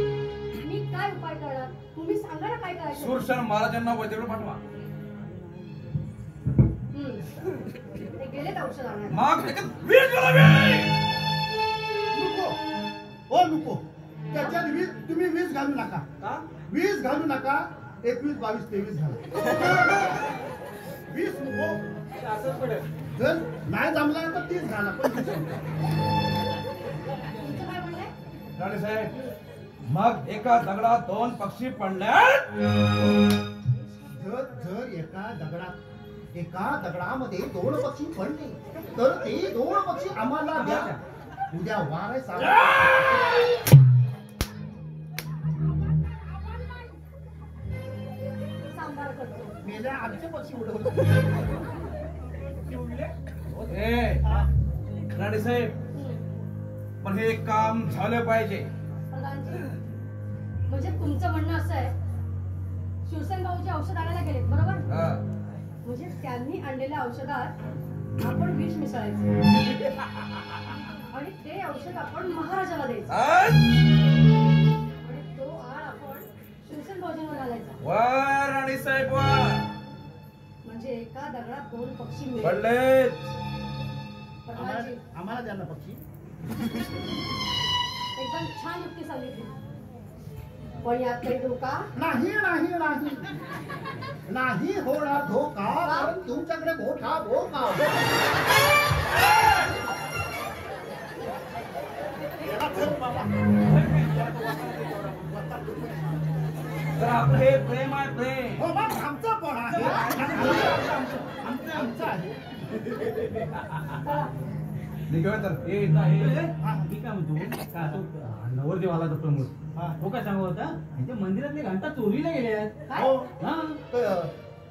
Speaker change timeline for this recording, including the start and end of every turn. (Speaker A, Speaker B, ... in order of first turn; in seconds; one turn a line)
Speaker A: 0.6-3.2
Speaker B: 2.9-4.6
Speaker A: 6.9-7.2
Speaker A: 8.2-9.3
Speaker B: 9.1-10.9
Speaker C: 12.1-12.5
Speaker C: 13.3-16.1
Speaker C: 16.7-19.6
Speaker C: 21.1-21.8
Speaker D: 22.1-22.8
Speaker C: 23.1-25.5
Speaker A: 27.4-28.1
Speaker B: 28.6-29.1
Speaker B: 29.9-32.4
Speaker C: 34.1-35.8
Speaker C: 36.3-40.9
Speaker D: 40.5-41.0
Speaker C: 41.5-43.1
Speaker A: 46.0-46.9
Speaker A: 48.7-49.5
Speaker C: 49.6-51.4
Speaker D: 52.7-53.7
Speaker B: 53.7-54.2
Speaker B: 55.1-55.7
Speaker A: 55.9-56.2
Speaker B: 57.0-58.7
Speaker A: 59.1-59.7
Speaker A: 60.7-61.9
Speaker A: 63.0-64.8
Speaker B: 64.9-65.2
Speaker A: 65.8-67.5
Speaker A: 68.2-69.3
Speaker A: 71.1-73.1
Speaker B: 73.1-73.7
Speaker A: 75.0-77.8
Speaker B: 77.8-79.6
Speaker A: 80.6-82.6
Speaker B: 82.4-83.3
Speaker A: 84.5-85.0
Speaker C: 84.5-86.0
Speaker A: 88.2-89.5
Speaker A: 90.8-91.9
Speaker C: 91.9-93.3
Speaker C: 94.3-98.4
Speaker A: 95.8-96.2
Speaker C: 102.4-104.5
Speaker B: 103.8-105.0
Speaker C: 105.0-106.2
Speaker B: 107.0-108.6
Speaker C: 108.6-112.4
Speaker B: 113.3-113.6
Speaker A: 114.0-114.3
Speaker B: 115.1-116.4
Speaker D: 115.7-122.8
Speaker C: 116.6-116.9
Speaker C: 122.9-123.3
Speaker D: 123.4-123.8
Speaker C: 123.9-124.3